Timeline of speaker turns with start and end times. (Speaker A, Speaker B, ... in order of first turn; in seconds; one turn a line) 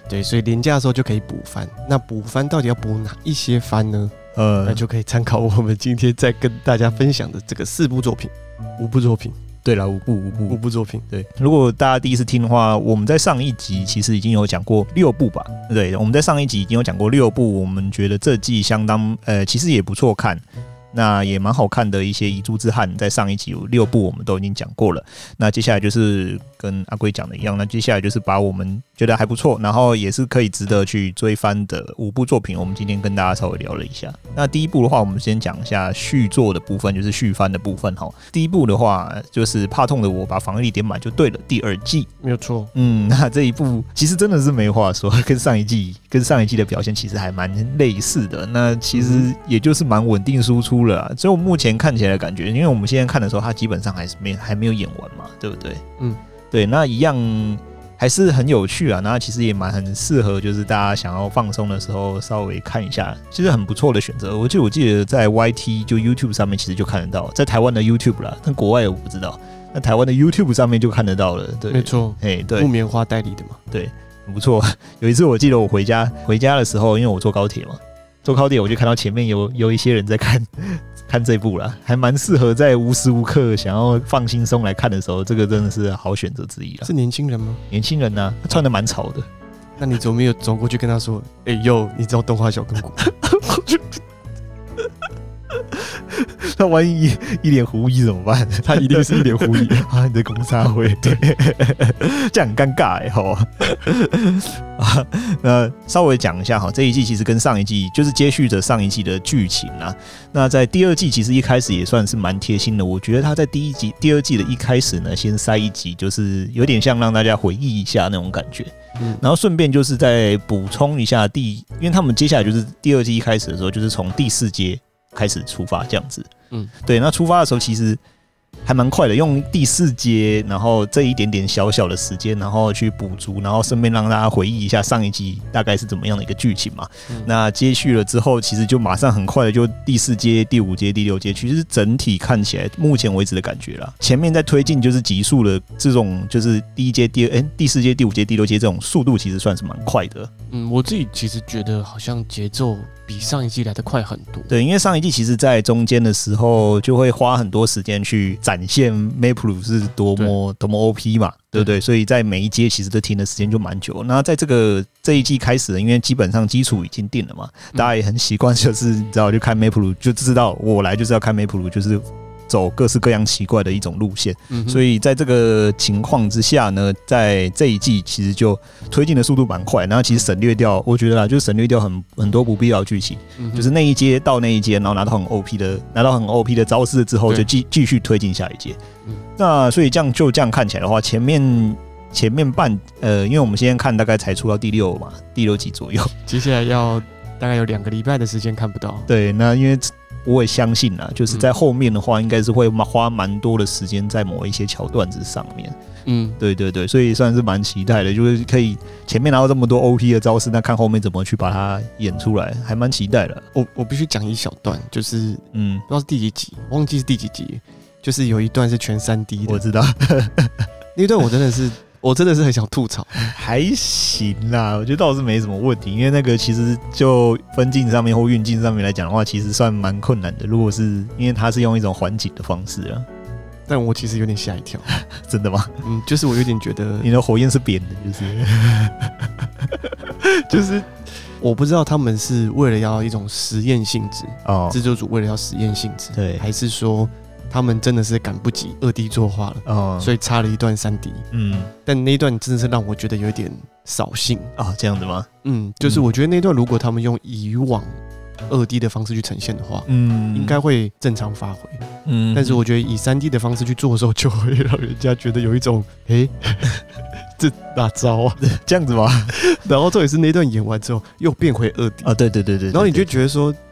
Speaker A: 0.1-9.4
Speaker B: 4.3-4.8
Speaker B: 9.7-10.6
Speaker A: 10.5-11.1
Speaker B: 11.1-42.1
Speaker A: 42.2-42.7
Speaker B: 42.7-55.8
Speaker A: 48.9-49.3
Speaker B: 56.5-72.7
Speaker A: 71.7-73.6
Speaker B: 73.7-86.9
Speaker A: 86.8-87.6
Speaker B: 87.7-89.3
Speaker A: 89.8-93.2
Speaker B: 95.7-126.3
Speaker A: 98.6-99.9
Speaker A: 119.0-119.2
Speaker B: 126.8-128.0
Speaker B: 128.7-150.3
Speaker A: 150.5-154.5
Speaker B: 154.5-188.8
Speaker A: 174.5-174.8
Speaker A: 183.4-183.7
Speaker B: 189.4-196.1
Speaker A: 196.3-199.1
Speaker B: 199.1-205.8
Speaker A: 206.1-206.4
Speaker B: 206.4-213.4
Speaker A: 213.5-219.6
Speaker B: 215.5-215.8
Speaker B: 219.5-220.7
Speaker A: 220.9-223.2
Speaker B: 223.1-233.1
Speaker A: 233.7-234.9
Speaker B: 234.9-235.8
Speaker A: 235.8-237.1
Speaker B: 237.0-239.3
Speaker A: 240.2-251.3
Speaker B: 244.4-244.8
Speaker B: 246.2-246.5
Speaker B: 249.7-250.1
Speaker B: 251.3-251.7
Speaker A: 251.8-254.5
Speaker B: 254.6-255.3
Speaker A: 255.4-268.4
Speaker B: 259.9-260.6
Speaker B: 262.1-262.6
Speaker B: 268.4-269.4
Speaker A: 269.3-272.1
Speaker B: 272.1-273.1
Speaker A: 272.7-273.6